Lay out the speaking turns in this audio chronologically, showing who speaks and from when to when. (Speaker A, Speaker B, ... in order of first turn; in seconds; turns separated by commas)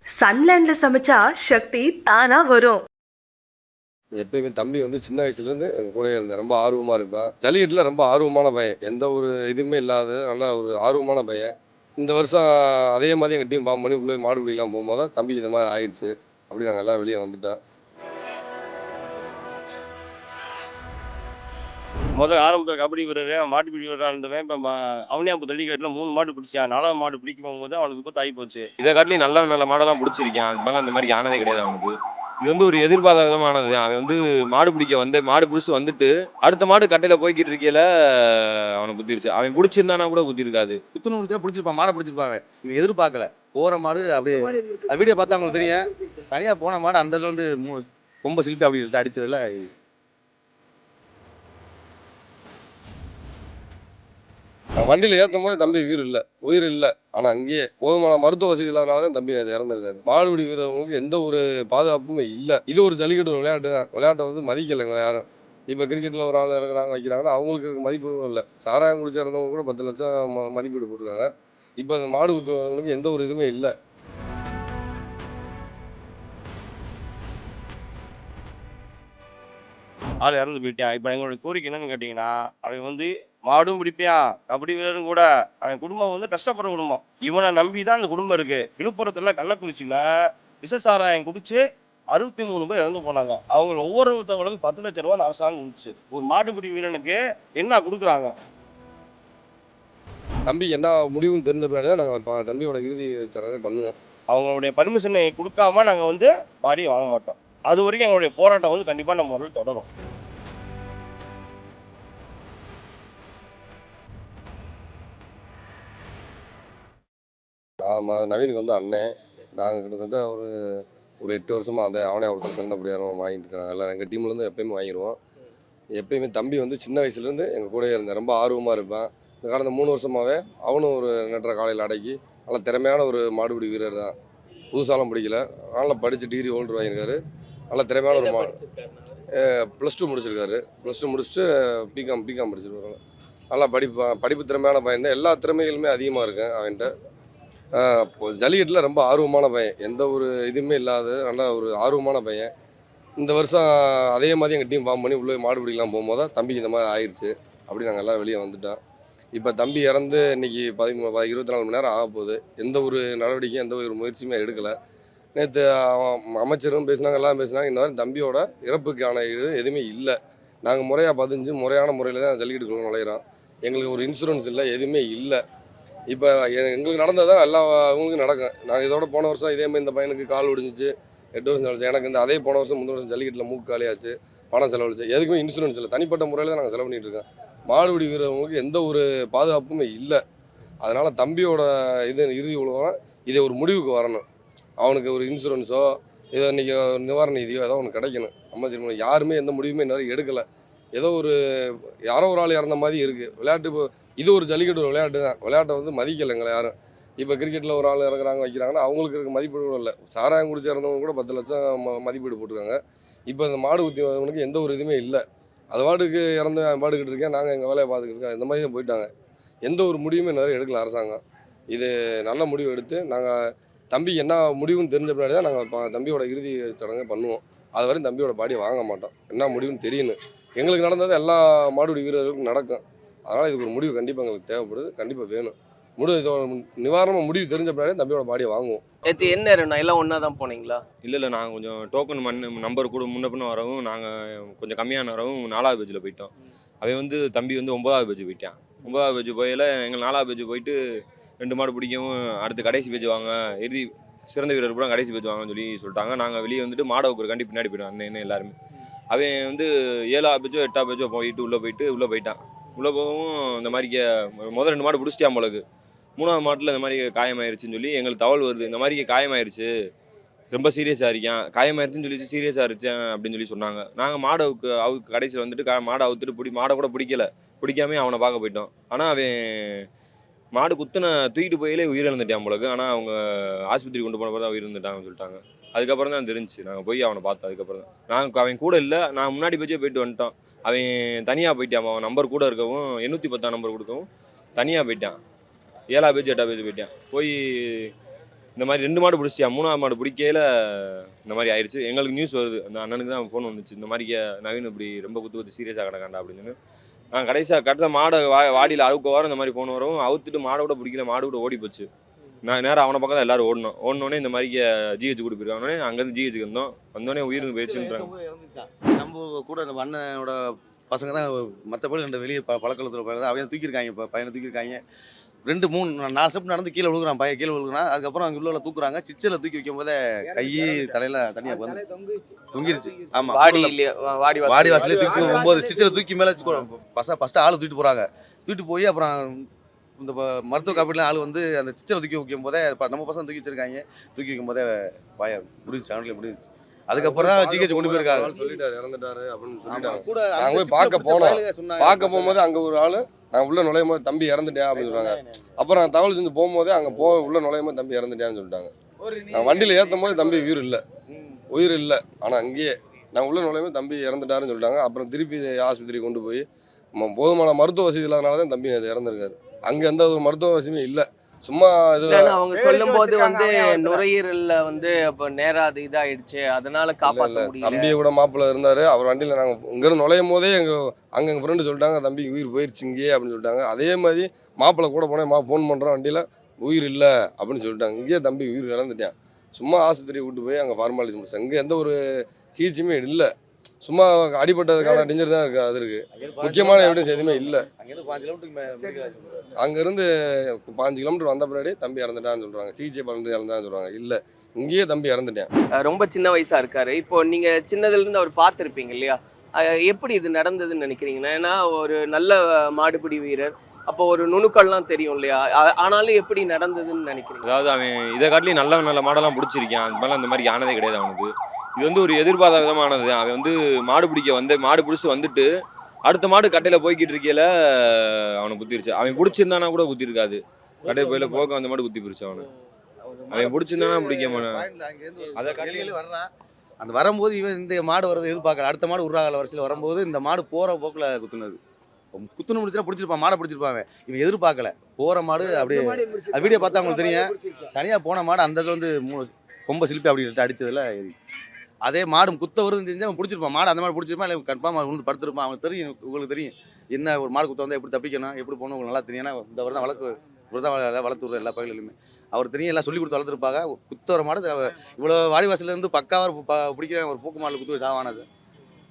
Speaker A: 0.1-2.8, Speaker B: 4.1-17.6, Speaker C: 22.2-28.6, Speaker D: 28.8-40.8, Speaker E: 40.9-49.7, Speaker B: 54.8-73.7, Speaker C: 80.2-90.0, Speaker C: 90.6-91.6, Speaker C: 92.1-98.3, Speaker B: 100.5-103.9, Speaker C: 104.3-109.9, Speaker B: 117.8-125.2, Speaker B: 126.0-134.1, Speaker B: 134.7-137.2, Speaker B: 137.7-138.6, Speaker F: 138.1-139.2, Speaker B: 139.3-143.0, Speaker B: 143.5-146.9, Speaker B: 147.8-152.5, Speaker B: 153.2-158.8, Speaker B: 159.3-164.8, Speaker B: 165.3-175.4, Speaker B: 176.1-190.2, Speaker B: 190.8-194.2, Speaker B: 194.8-212.8, Speaker B: 213.3-219.1, Speaker B: 219.6-221.2, Speaker B: 221.7-223.4, Speaker B: 223.9-238.8, Speaker F: 239.0-240.8, Speaker D: 241.0-250.8, Speaker D: 251.4-258.5, Speaker D: 259.1-265.6, Speaker D: 266.2-269.7, Speaker D: 270.5-279.9, Speaker D: 280.5-283.1, Speaker D: 283.7-294.0, Speaker D: 294.6-295.2, Speaker D: 295.9-297.9, Speaker D: 298.6-306.5, Speaker D: 307.1-311.9, Speaker D: 312.4-318.1, Speaker E: 317.4-320.4, Speaker E: 320.9-324.8, Speaker E: 325.5-331.9, Speaker E: 332.5-333.7, Speaker F: 333.3-335.5, Speaker E: 334.4-339.4, Speaker E: 340.0-348.3, Speaker B: 346.9-360.8, Speaker E: 349.7-352.4, Speaker E: 354.7-355.4, Speaker B: 361.5-372.5, Speaker F: 372.1-378.0, Speaker B: 377.1-393.3, Speaker B: 393.8-397.7, Speaker E: 394.8-395.1, Speaker E: 396.1-399.5, Speaker B: 399.6-405.5, Speaker F: 405.8-417.4, Speaker D: 417.4-425.4, Speaker D: 426.1-432.5, Speaker E: 433.1-436.3, Speaker D: 433.3-434.6, Speaker D: 435.4-435.9, Speaker E: 436.8-441.6, Speaker E: 442.1-451.2, Speaker E: 451.8-468.2